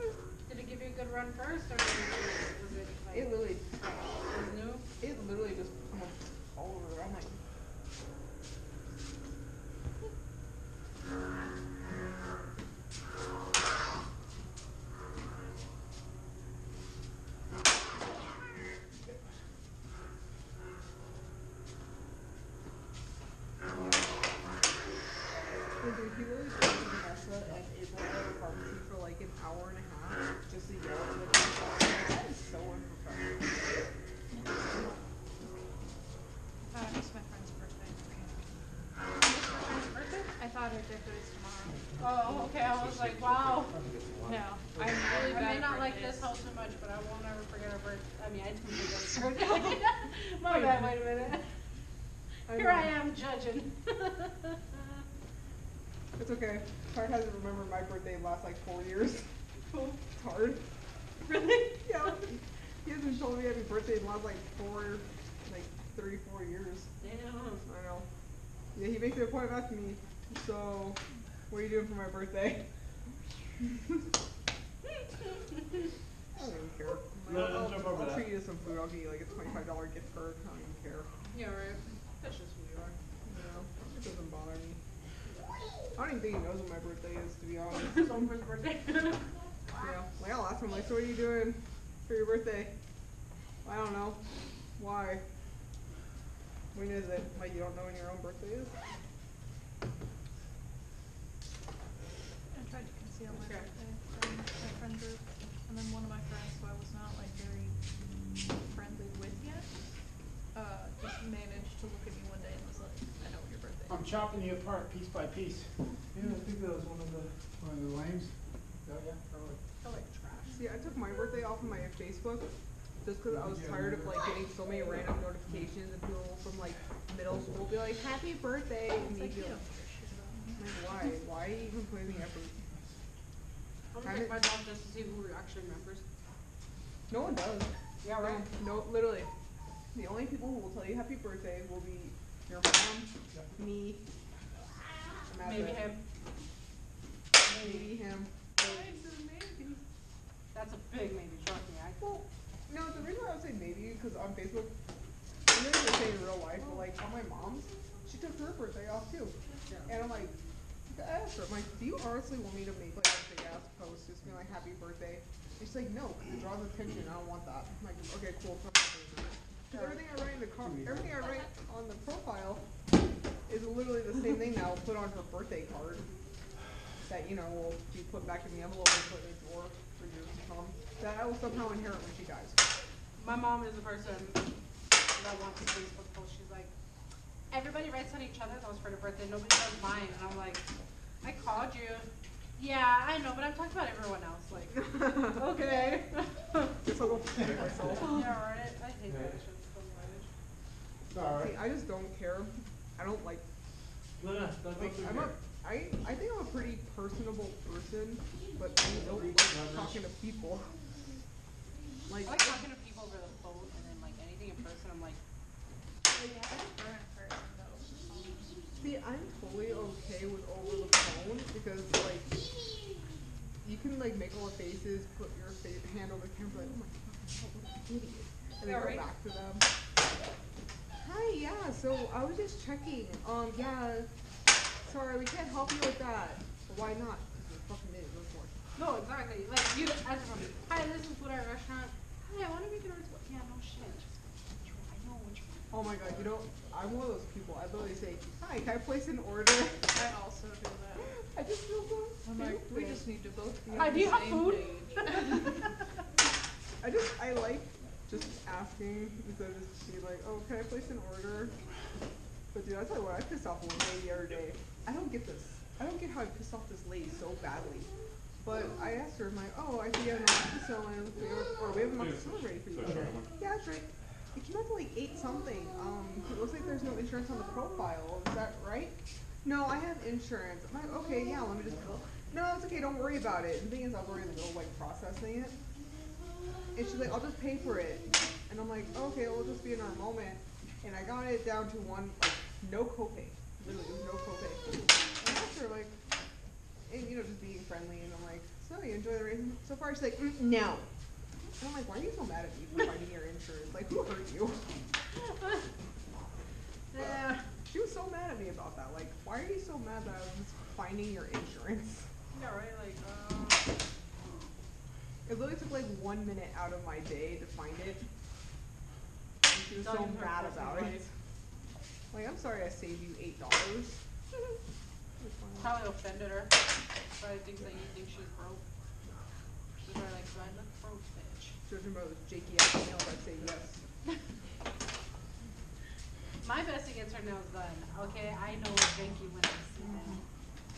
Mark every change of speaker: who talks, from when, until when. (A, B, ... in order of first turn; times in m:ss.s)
0:00.5-0:04.9 A
0:03.1-0:03.9 B
0:05.0-0:07.4 B
0:25.8-0:33.5 B
0:34.3-0:35.6 C
0:36.7-0:38.4 C
0:39.2-0:40.3 A
0:40.4-0:41.9 C
0:42.0-0:43.8 A
0:42.8-0:43.2 D
0:43.7-0:44.4 D
0:44.2-0:46.3 C
0:45.1-0:51.5 A
0:50.5-0:50.9 B
0:52.5-0:52.9 B
0:52.5-0:55.0 A
0:56.2-1:00.6 B
1:01.2-1:06.9 B
1:07.0-1:07.6 A
1:07.6-1:08.1 B
1:08.8-1:12.7 B
1:16.4-1:21.1 B
1:17.3-1:18.2 D
1:21.3-1:23.0 A
1:23.3-1:24.8 B
1:26.0-1:28.2 B
1:27.7-1:29.9 A
1:29.8-1:32.7 B
1:33.6-1:34.2 B
1:34.8-1:35.2 B
1:36.7-1:38.8 B
1:42.5-1:47.8 C
1:43.3-1:43.7 A
1:48.4-1:49.9 C
1:50.5-1:54.1 C
1:53.9-1:58.3 D
1:58.9-1:59.5 D
1:59.8-2:00.5 A
2:00.5-2:02.5 B
2:03.0-2:09.6 B
2:03.4-2:04.1 D
2:08.9-2:10.7 C
2:10.6-2:12.6 B
2:13.9-2:16.0 A
2:14.0-2:14.4 B
2:17.1-2:19.3 B
2:18.0-2:18.4 A
2:19.9-2:24.0 B
2:25.3-2:25.9 B
2:25.4-2:26.0 A
2:27.4-2:28.0 A
2:27.6-2:28.9 B
2:28.6-2:29.0 A
2:28.6-2:29.8 C
2:30.5-2:32.0 A
2:32.0-2:34.7 B
2:35.5-2:40.3 B
2:39.7-2:39.9 A
2:40.9-2:52.6 B
2:49.7-2:50.0 A
2:53.5-2:56.1 B
2:57.1-3:02.7 B
3:03.2-3:04.5 A
3:05.2-3:06.7 A
3:07.5-3:10.7 A
3:11.2-3:16.8 A
3:14.8-3:15.4 B
3:16.8-3:18.2 B
3:18.0-3:20.3 A
3:21.1-3:21.4 D
3:21.3-3:23.4 B
3:24.2-3:25.4 D
3:24.8-3:30.8 B
3:29.0-3:30.0 D
3:32.1-3:32.6 B
3:32.2-3:35.2 A
3:36.1-3:38.7 C
3:38.8-3:42.8 B
3:43.6-3:49.7 B
3:48.6-3:49.1 A
3:51.0-3:54.1 B
3:54.9-3:58.5 B
3:58.8-4:05.9 A
4:05.7-4:09.9 B
4:09.9-4:11.1 C
4:11.1-4:13.1 B
4:12.2-4:15.7 C
4:13.7-4:15.8 A
4:16.8-4:21.5 B
4:22.5-4:27.9 B
4:28.4-4:45.6 B
4:32.0-4:33.3 D
4:46.8-4:56.0 B
4:56.9-5:00.9 B
5:01.6-5:04.8 B
5:05.1-5:05.7 A
5:06.9-5:07.5 A
5:07.0-5:12.1 B
5:12.3-5:13.7 A
5:15.3-5:18.0 B
5:19.5-5:21.1 B
5:19.7-5:21.0 A
5:22.1-5:24.0 B
5:25.2-5:25.7 B
5:25.6-5:26.6 A
5:27.2-5:28.6 A
5:29.8-5:31.6 A
5:31.7-5:33.8 B
5:36.4-5:40.2 A
5:39.8-5:40.2 B